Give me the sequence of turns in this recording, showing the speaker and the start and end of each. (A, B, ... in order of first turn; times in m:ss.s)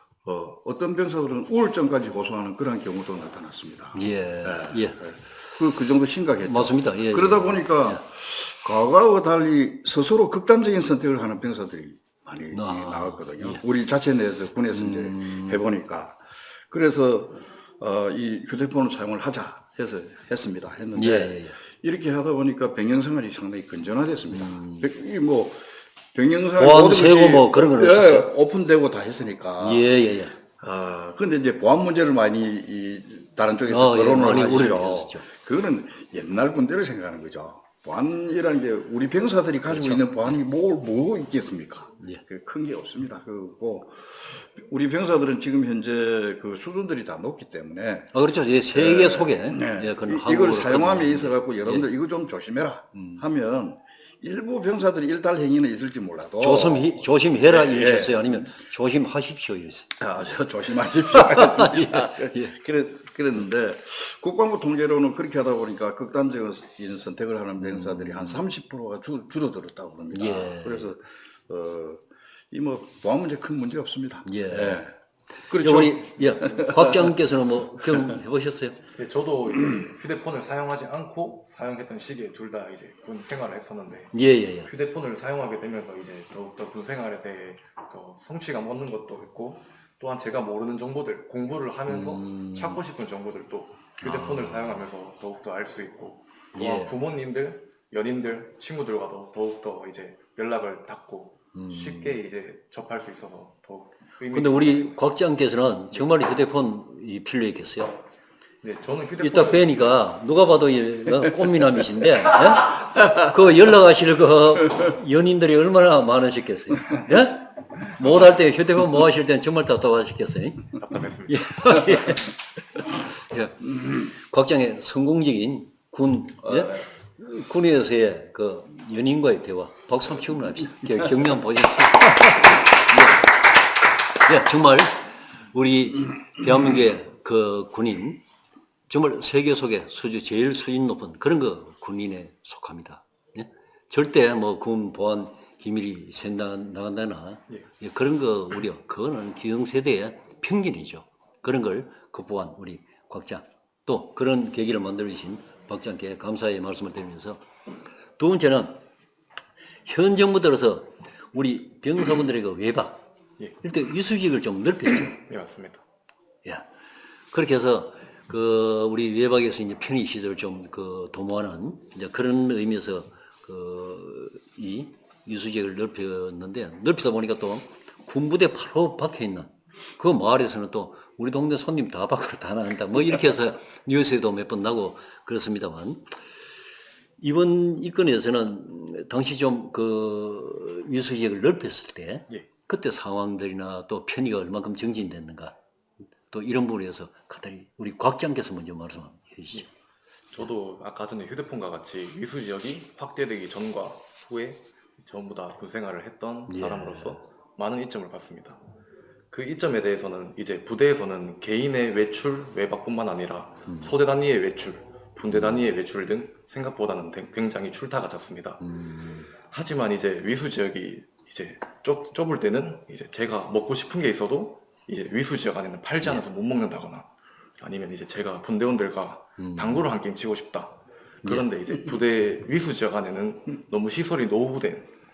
0:00.2-0:29.9 A
0:04.0-0:05.1 B
0:06.4-0:08.0 B
0:12.5-0:13.6 B
0:14.7-0:15.6 B
0:21.0-0:21.6 B
0:24.4-0:24.8 B
0:26.6-0:28.3 B
0:29.6-0:30.3 B
0:30.6-0:48.1 A
0:33.7-0:35.2 B
0:39.7-0:40.4 B
0:48.1-0:51.9 B
0:48.7-0:56.9 A
0:56.4-0:59.9 B
0:57.5-0:58.5 A
1:00.0-1:14.9 A
1:01.2-1:02.5 B
1:07.6-1:08.4 B
1:10.1-1:11.0 B
1:14.3-1:14.8 B
1:15.5-1:17.1 A
1:15.5-1:18.8 B
1:19.0-1:24.1 C
1:24.1-1:24.7 B
1:24.6-1:45.2 C
1:31.9-1:32.8 B
1:34.0-1:34.8 B
1:36.6-1:36.9 B
1:41.6-1:42.2 B
1:44.3-1:48.0 B
1:48.6-1:49.9 C
1:49.2-2:00.8 B
2:00.8-2:02.0 C
2:01.3-2:13.3 B
2:14.2-2:18.2 B
2:18.9-2:37.4 B
2:38.2-2:38.8 B
2:39.9-2:43.0 B
2:43.6-2:45.2 B
2:45.3-2:45.8 C
2:47.3-3:06.1 B
3:07.2-3:15.6 B
3:16.3-3:19.7 B
3:20.3-3:28.6 C
3:26.5-3:27.2 B
3:29.3-3:38.6 C
3:33.7-3:33.9 B
3:35.3-3:35.6 B
3:38.6-3:39.3 B
3:39.5-3:47.1 C
3:47.6-3:54.9 C
3:49.4-3:49.9 B